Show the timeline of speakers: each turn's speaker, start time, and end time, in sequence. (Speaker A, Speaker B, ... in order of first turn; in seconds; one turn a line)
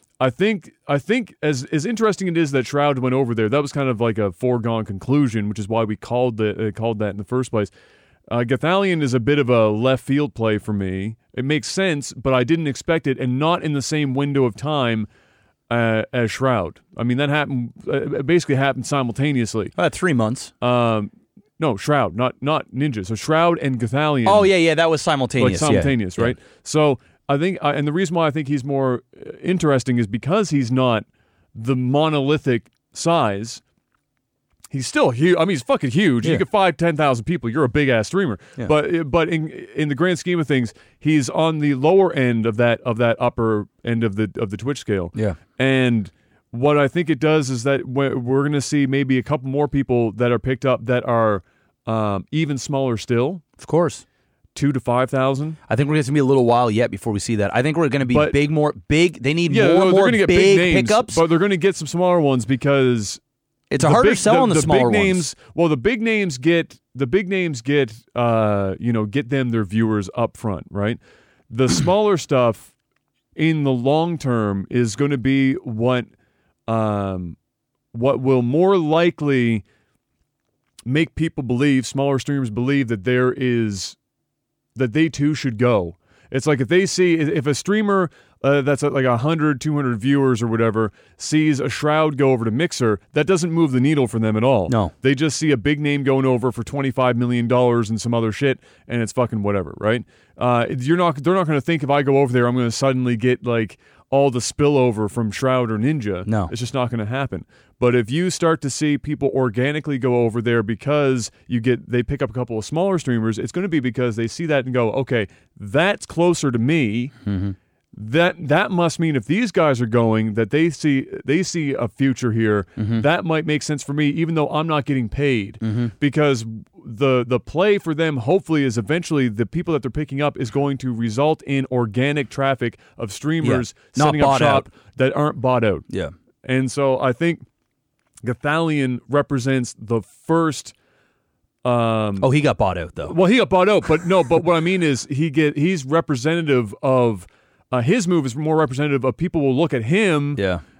Speaker A: 0.2-7.7
Speaker A: 8.3-15.1
Speaker A: 15.7-19.7
Speaker B: 19.8-20.5
Speaker A: 20.6-24.5
Speaker B: 24.2-26.4
Speaker A: 25.4-33.6
Speaker A: 34.7-53.4
Speaker B: 53.6-54.0
Speaker A: 54.5-55.6
Speaker B: 55.7-61.2
Speaker A: 58.1-58.4
Speaker A: 59.5-63.2
Speaker B: 63.7-65.3
Speaker A: 63.8-72.7
Speaker A: 73.4-76.1
Speaker A: 76.7-77.4
Speaker A: 77.9-79.7
Speaker A: 80.9-84.0
Speaker A: 84.8-117.1
Speaker B: 94.7-94.9
Speaker B: 106.3-106.5
Speaker B: 117.2-117.6
Speaker A: 117.9-135.9
Speaker B: 122.8-123.0
Speaker B: 125.6-125.9
Speaker B: 133.4-134.7
Speaker A: 136.4-137.4
Speaker A: 138.2-140.7
Speaker A: 141.6-142.3
Speaker B: 142.2-143.2
Speaker A: 143.0-150.4
Speaker B: 150.4-150.6